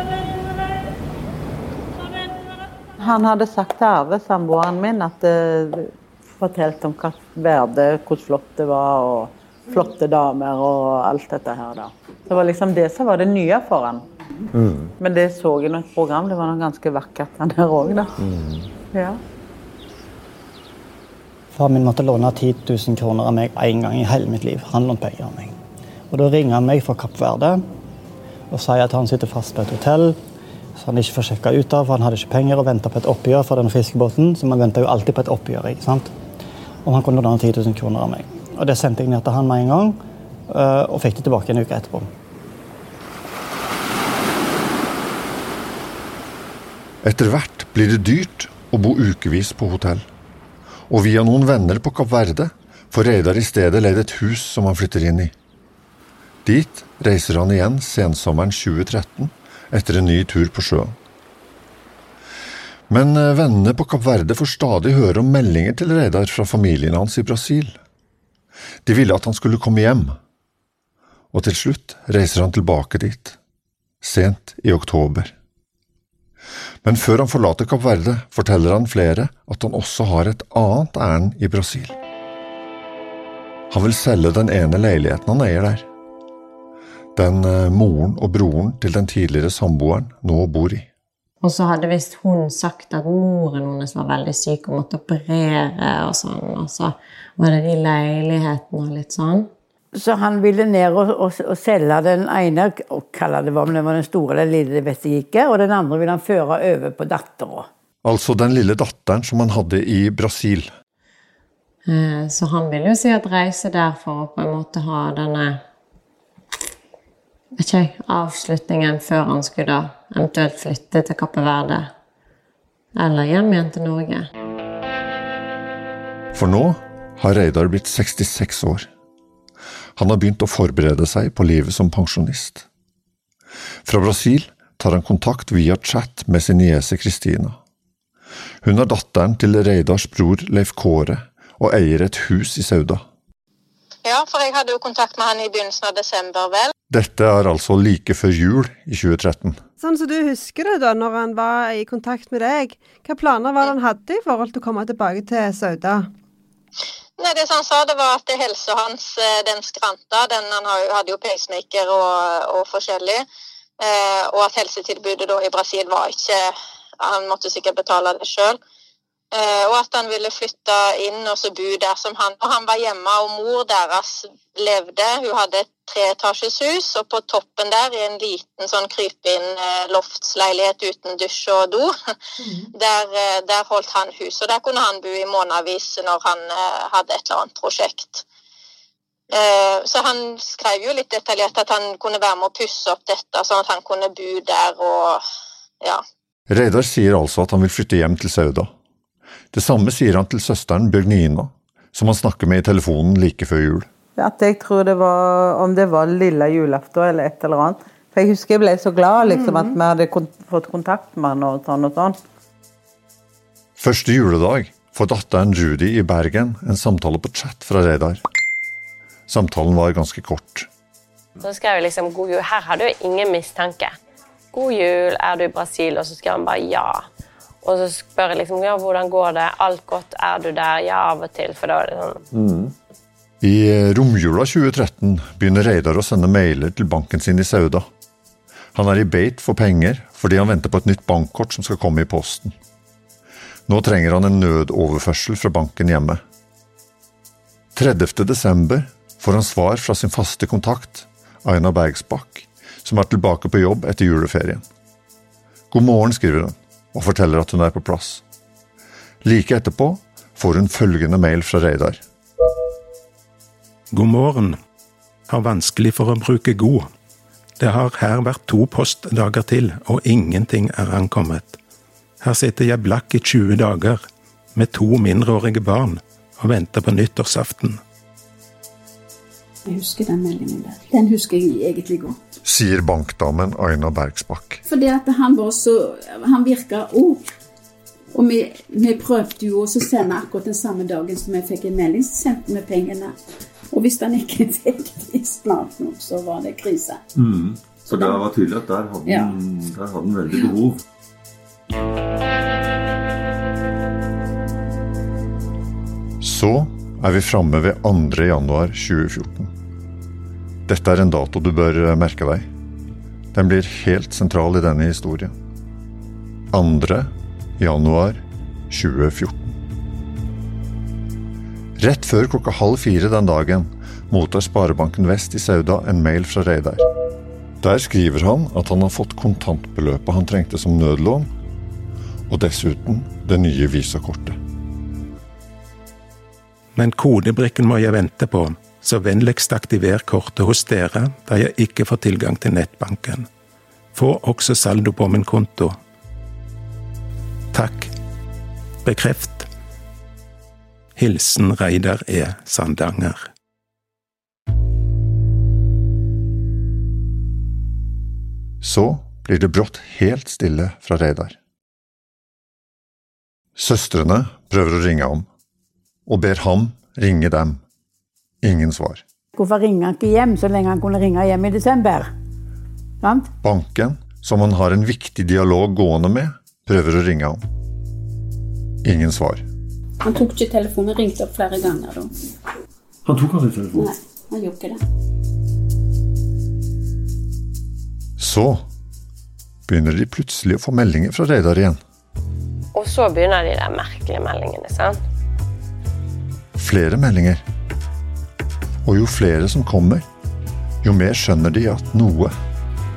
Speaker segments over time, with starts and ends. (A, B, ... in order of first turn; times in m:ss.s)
0:03.0-0:14.0 A
0:14.5-0:14.9 B
0:15.0-0:18.2 A
0:18.2-0:18.7 B
0:18.9-0:19.2 A
0:21.5-0:25.6 C
0:26.1-0:27.6 C
0:28.5-0:30.2 C
0:30.8-0:36.1 C
0:36.8-0:42.1 C
0:47.0-0:50.1 D
0:50.9-0:55.3 D
0:56.4-1:01.0 D
1:02.9-1:07.8 D
1:08.8-1:10.2 D
1:11.3-1:13.4 D
1:14.0-1:15.3 D
1:16.8-1:22.0 D
1:23.7-1:25.9 D
1:27.2-1:30.9 D
1:31.4-1:39.5 E
1:39.9-1:47.7 F
1:48.0-1:50.7 D
1:51.9-1:55.6 E
1:57.6-2:01.9 E
2:03.0-2:04.3 E
2:06.3-2:08.9 D
2:10.0-2:12.7 D
2:13.8-2:17.6 D
2:18.6-2:23.0 D
2:24.0-2:26.7 G
2:26.9-2:29.6 D
2:29.8-2:36.1 H
2:37.2-2:43.2 G
2:43.8-2:48.6 G
2:49.3-3:01.9 G
3:02.6-3:08.2 G
3:09.3-3:15.2 G
3:16.5-3:18.7 D
3:19.5-3:23.9 D
3:24.2-3:32.2 A
3:29.3-3:29.7 F
3:33.8-3:38.2 D
3:39.3-3:40.7 D
3:41.4-3:43.9 I
3:44.5-3:47.0 I
3:47.6-3:52.2 I
3:52.3-3:52.7 B
3:53.4-3:57.9 D
3:58.8-4:02.6 D
4:03.7-4:06.2 D
4:07.8-4:14.6 D
4:15.7-4:18.2 D
4:19.2-4:22.0 D
4:23.9-4:24.6 J
4:25.3-4:26.9 J
4:27.6-4:31.6 J
4:32.2-4:34.0 J
4:34.6-4:37.8 J
4:39.6-4:42.2 K
4:42.4-4:44.6 D
4:44.7-4:47.2 K
4:48.1-4:53.2 K
4:53.7-4:57.0 K
4:57.2-5:00.8 B
4:57.9-4:58.2 K
4:59.0-4:59.4 K
5:06.2-5:09.5 D
5:10.7-5:12.5 D
5:13.3-5:15.3 D
5:16.5-5:19.6 D
5:21.8-5:26.8 D
5:27.6-5:31.3 D
5:32.3-5:34.4 D
5:36.8-5:43.3 J
5:43.9-5:45.8 J
5:47.5-5:47.9 J
5:48.8-5:49.5 J
5:51.0-5:53.3 J
5:58.6-6:01.4 D
6:03.6-6:05.3 D
6:06.1-6:07.6 D
6:08.4-6:09.0 D
6:09.4-6:12.1 F
6:13.0-6:13.3 F
6:13.4-6:17.4 D
6:18.8-6:19.4 D
6:20.0-6:22.1 K
6:23.1-6:23.9 B
6:23.7-6:24.8 K
6:28.2-6:28.6 D
6:29.7-6:31.8 D
6:32.7-6:35.0 I
6:36.6-6:37.4 D
6:38.8-6:40.0 D
6:40.8-6:42.3 D